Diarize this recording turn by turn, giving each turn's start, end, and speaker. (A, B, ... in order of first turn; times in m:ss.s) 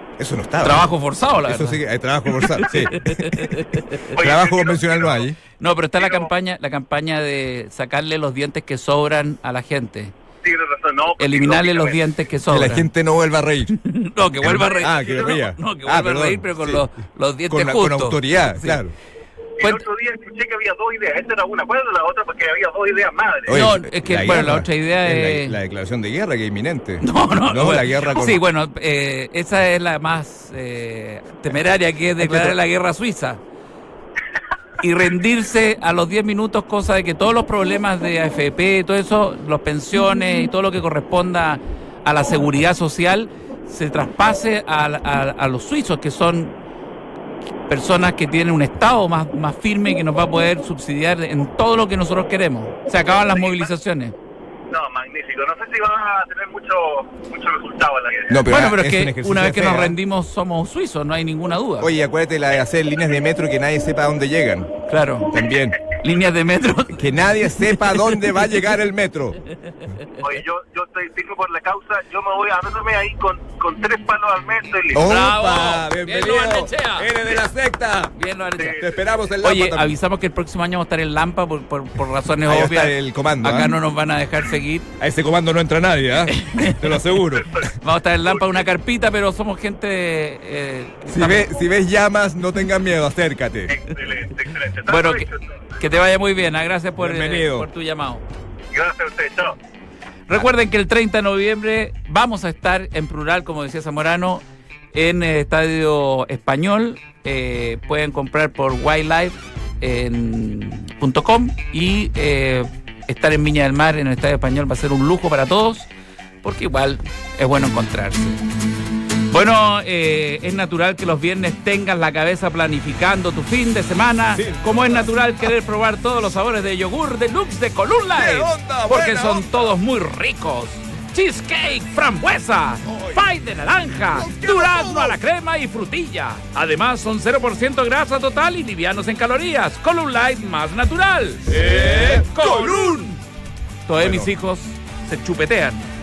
0:00.2-0:00.9 A
0:00.6-0:01.8 B
0:01.4-0:03.6 A
0:02.4-0:04.1 B
0:04.1-0:05.3 C
0:04.1-0:05.4 A
0:05.6-0:10.1 B
0:06.0-0:06.3 C
0:10.4-0:12.0 C
0:11.2-0:12.9 B
0:12.5-0:13.8 A
0:13.7-0:18.8 B
0:14.4-0:16.8 A
0:14.6-0:15.4 C
0:17.5-0:18.9 A
0:19.6-0:23.7 C
0:23.5-0:28.4 A
0:23.5-0:25.6 B
0:27.0-0:33.4 B
0:32.2-0:32.5 A
0:34.8-0:46.6 B
0:47.7-0:54.1 B
0:53.3-0:53.7 C
0:54.7-0:58.4 C
0:58.3-1:00.0 A
0:58.4-1:01.9 B
1:01.8-1:04.7 A
1:04.9-1:05.3 B
1:05.3-1:05.8 A
1:05.9-1:08.4 B
1:07.0-1:09.4 A
1:10.2-1:15.1 C
1:14.9-1:18.1 A
1:14.9-1:17.1 B
1:18.1-1:18.8 B
1:18.6-1:18.9 C
1:18.8-1:19.9 A
1:19.4-1:24.9 B
1:22.4-1:23.8 A
1:25.0-1:27.7 A
1:26.3-1:26.9 B
1:27.3-1:27.7 C
1:27.8-1:31.5 B
1:28.3-1:28.6 C
1:31.1-1:33.8 A
1:33.7-1:35.4 C
1:34.9-1:35.3 B
1:35.8-1:38.2 B
1:37.0-1:37.7 A
1:38.7-1:39.6 C
1:40.3-1:55.9 B
1:56.4-1:58.4 B
1:59.3-2:23.2 B
2:04.3-2:05.1 A
2:08.1-2:09.7 A
2:12.8-2:13.2 A
2:14.1-2:15.2 A
2:21.5-2:23.1 A
2:23.8-2:25.8 B
2:24.0-2:24.3 A